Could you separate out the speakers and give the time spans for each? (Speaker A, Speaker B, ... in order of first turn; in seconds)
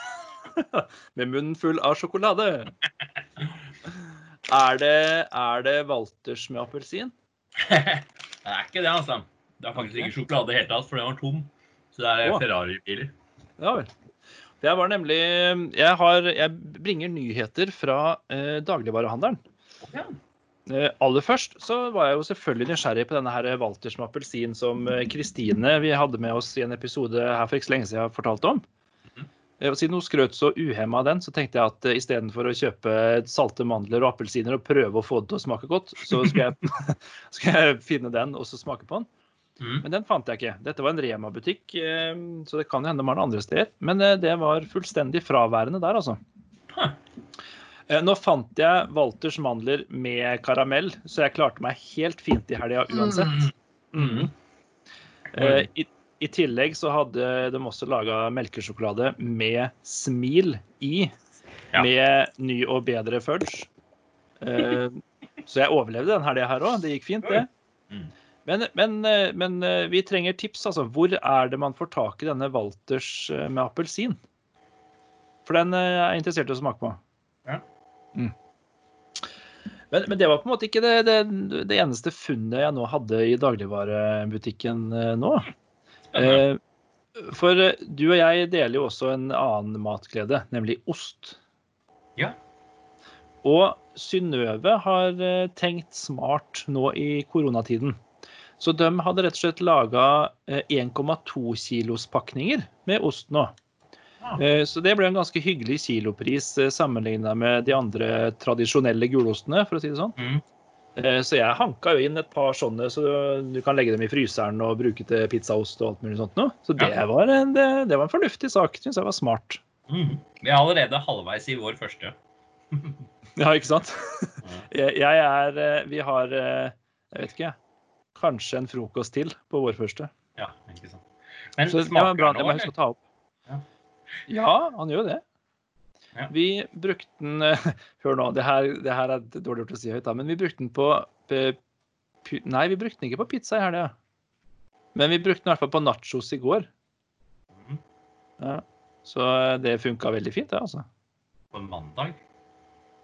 Speaker A: 0.6-2.7, 4.5-7.1, 9.8-10.1, 13.6-13.9, 14.6-19.4, 20.7-28.6, 29.6-39.1, 39.8-46.2, 47.9-54.3, 55.3-61.1, 61.8-63.7, 64.4-67.5, 68.5-74.2, 75.5-77.0, 79.9-85.5, 86.2-86.6, 87.2-91.4, 93.4-98.0, 98.6-103.5, 104.4-110.2, 111.0-119.6, 123.4-127.6, 128.2-130.1, 131.7-133.0, 134.3-135.2, 136.3-141.6, 142.2-143.9, 144.9-146.7, 148.4-150.8
Speaker B: 7.6-13.1, 19.8-20.1, 39.6-39.8, 46.7-47.0, 53.2-54.3, 55.4-55.7, 67.2-68.1, 86.1-86.4, 110.2-110.4, 119.9-122.2, 122.7-123.0, 130.4-131.1, 131.6-132.7, 147.5-147.8, 151.5-152.2